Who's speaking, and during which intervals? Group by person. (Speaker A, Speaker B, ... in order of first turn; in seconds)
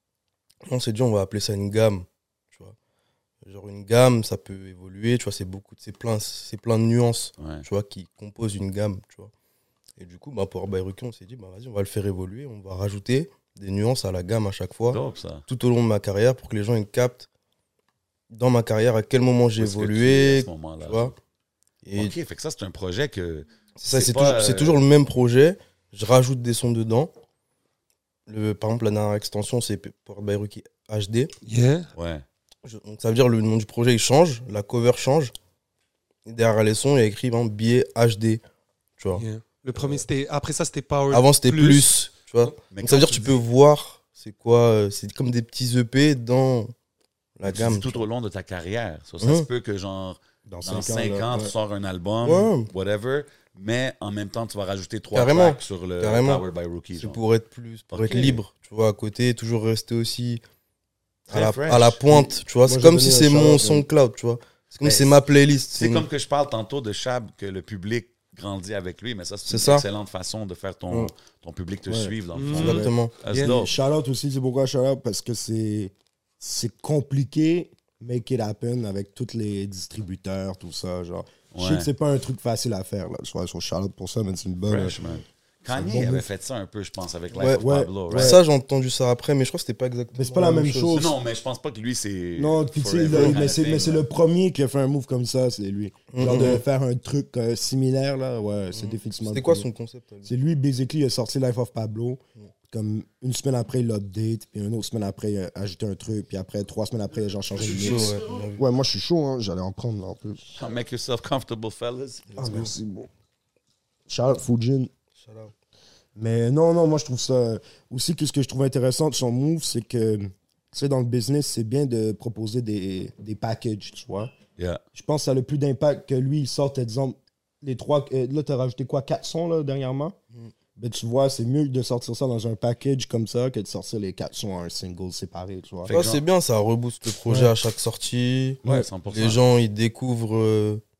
Speaker A: 0.7-2.7, 3.4-9.3, 10.0-17.3, 18.3-21.1, 21.8-22.1, 23.8-27.1, 28.3-31.3, 32.6-35.3, 36.2-38.4, 39.0-40.0, 41.1-46.7, 47.4-48.0, 49.2-49.5, 52.2-52.7, 55.1-56.4, 57.0-60.4, 61.3-66.0, 69.5-69.8, 72.5-73.1, 87.4-91.0, 93.1-93.4, 96.1-96.6, 98.7-100.3, 107.5-108.6, 112.3-112.7, 115.2-115.5, 135.9-140.8
Speaker B: 7.4-7.6, 14.9-15.4, 19.6-21.1, 21.9-24.8, 31.9-32.2, 42.7-43.4, 47.4-57.2, 57.9-58.4, 61.3-62.3, 64.8-65.2, 65.7-73.7, 81.5-81.9, 84.7-88.4, 90.9-94.0, 110.5-112.7, 124.6-124.8, 135.8-136.2, 138.6-139.4
Speaker C: 31.4-31.9, 39.2-41.9, 72.3-73.6
Speaker D: 50.5-51.5, 62.6-63.9, 71.9-72.9, 73.4-85.0, 85.7-86.3, 87.5-88.4, 90.1-91.1, 92.4-99.7, 100.2-110.5, 112.4-113.1, 114.1-114.9, 116.2-124.3, 124.9-130.2, 130.8-135.9, 137.2-137.5